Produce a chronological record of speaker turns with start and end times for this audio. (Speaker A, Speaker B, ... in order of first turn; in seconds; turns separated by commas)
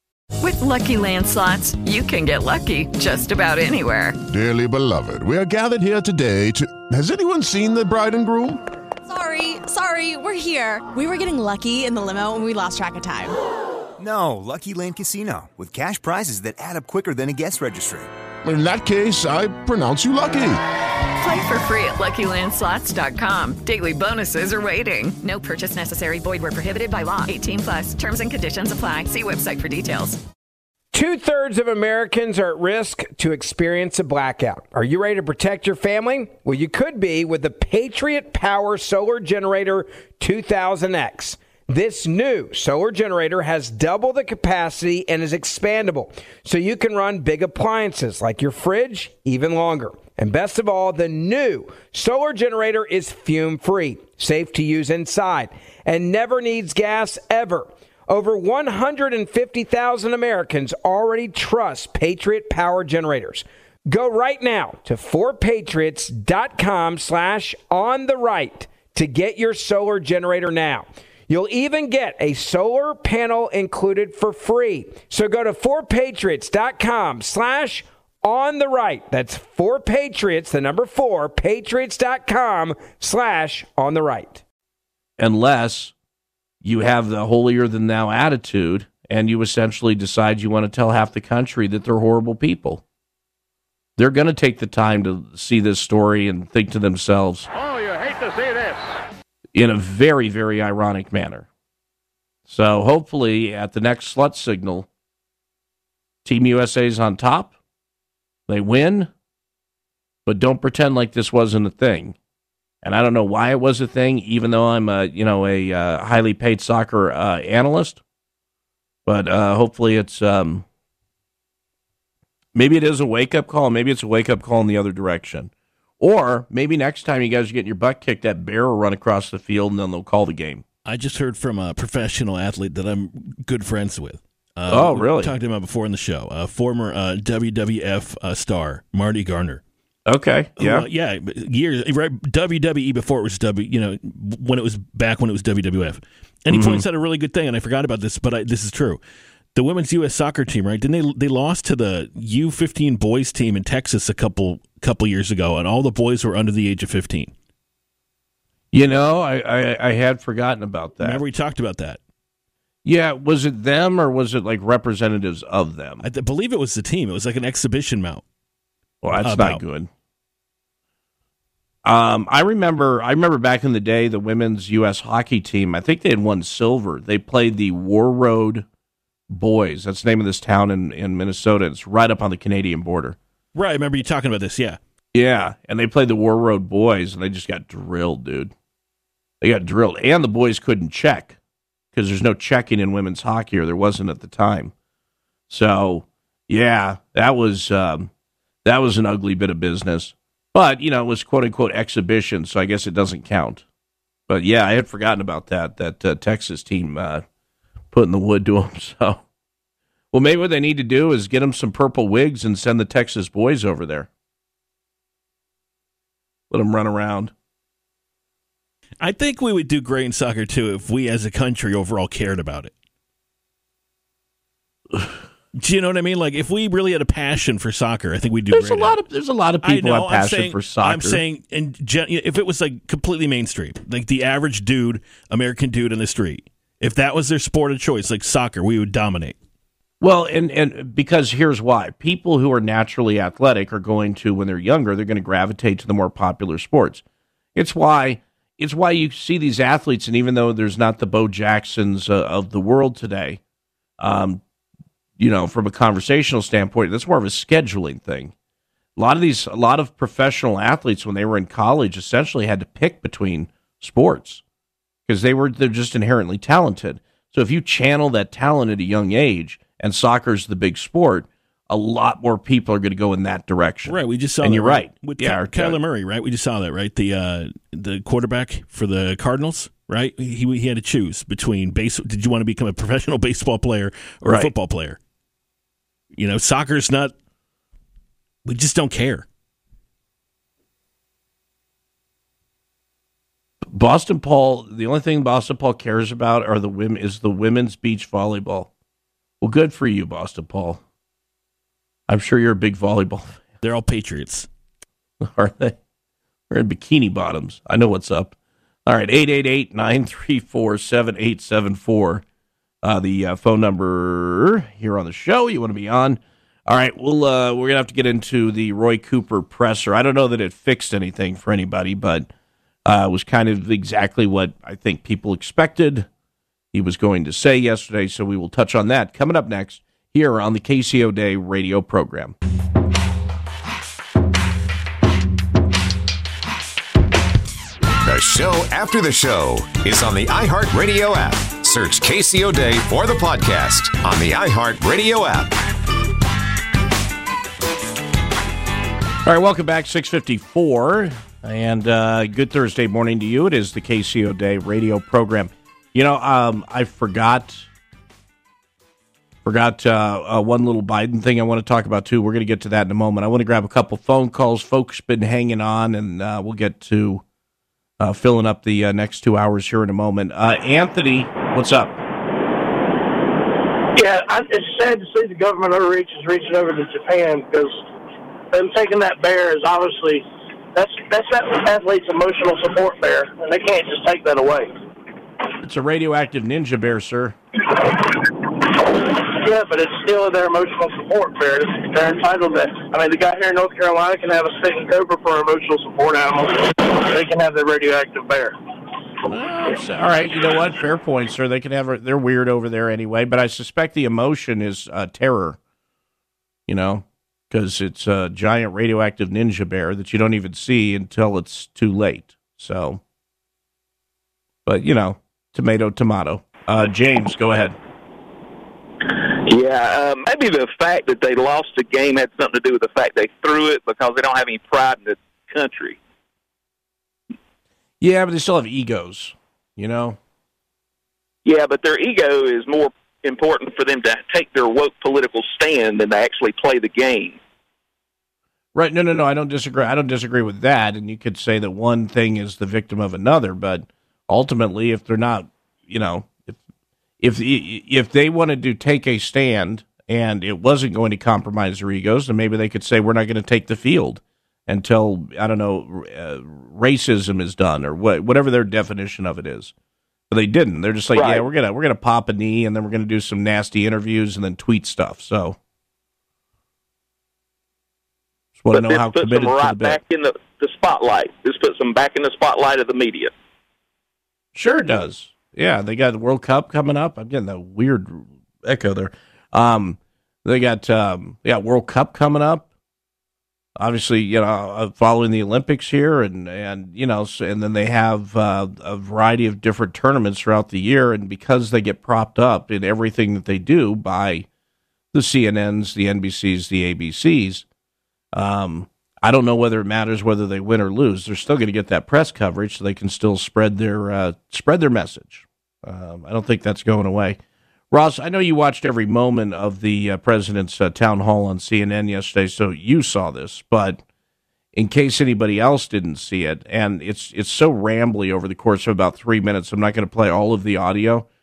Speaker A: 0.4-4.2, Speaker B: 4.3-8.6, Speaker C: 9.1-13.3, Speaker D: 14.0-18.1, Speaker B: 18.4-20.6, Speaker A: 21.2-30.2, Speaker E: 30.9-84.4, Speaker F: 85.2-85.9, Speaker F: 86.6-92.8, Speaker F: 94.0-97.5, Speaker F: 99.5-101.5, Speaker F: 102.5-104.9, Speaker F: 106.2-107.5, Speaker F: 108.5-109.1, Speaker F: 110.2-112.2, Speaker F: 112.8-118.0, Speaker F: 119.0-120.7, Speaker F: 122.5-130.6, Speaker G: 130.8-139.6, Speaker F: 134.7-135.3, Speaker F: 140.1-140.8, Speaker G: 140.6-149.0, Speaker F: 146.5-146.8, Speaker G: 149.5-157.3, Speaker F: 158.7-161.2, Speaker G: 161.0-162.0, Speaker F: 162.8-166.0, Speaker G: 166.0-168.2, Speaker F: 169.0-169.9, Speaker G: 169.2-169.6, Speaker F: 171.8-178.7, Speaker F: 179.3-183.2, Speaker G: 183.5-184.8, Speaker F: 185.1-188.5, Speaker F: 189.4-191.4, Speaker F: 191.9-194.7, Speaker F: 195.5-198.1, Speaker F: 198.6-203.6, Speaker F: 204.3-207.2, Speaker F: 207.9-209.2, Speaker F: 210.1-214.1, Speaker F: 216.5-217.3, Speaker G: 219.0-222.7, Speaker G: 225.6-229.0, Speaker F: 228.5-231.2, Speaker G: 229.6-239.4, Speaker F: 240.0-247.0, Speaker F: 247.6-253.4, Speaker F: 254.0-254.4, Speaker F: 255.2-258.3, Speaker F: 259.0-264.4, Speaker F: 265.1-275.8, Speaker G: 273.9-285.0, Speaker G: 286.1-287.1, Speaker G: 288.4-289.2, Speaker F: 293.7-298.7, Speaker F: 299.4-300.8, Speaker F: 302.1-303.4, Speaker G: 303.6-304.5, Speaker F: 305.2-305.8, Speaker F: 306.5-308.3, Speaker F: 308.9-312.2, Speaker F: 312.8-322.3, Speaker F: 322.9-326.1, Speaker F: 326.7-332.3, Speaker H: 338.0-345.6, Speaker F: 349.2-357.7, Speaker F: 359.4-367.2, Speaker F: 368.0-372.0, Speaker I: 373.9-377.8, Speaker I: 378.5-384.7, Speaker F: 385.6-387.4, Speaker I: 389.1-398.6, Speaker F: 399.3-405.6, Speaker F: 406.7-413.0, Speaker F: 414.6-417.8, Speaker J: 419.5-426.0, Speaker F: 428.0-430.2, Speaker J: 431.4-437.4, Speaker F: 438.7-446.6, Speaker F: 447.2-459.7, Speaker F: 460.3-465.6, Speaker J: 461.1-461.4, Speaker F: 468.6-470.0, Speaker J: 468.7-473.3, Speaker F: 474.5-482.7, Speaker F: 483.8-494.5, Speaker F: 495.1-497.6, Speaker F: 498.3-507.4, Speaker F: 507.9-514.0, Speaker F: 514.7-521.3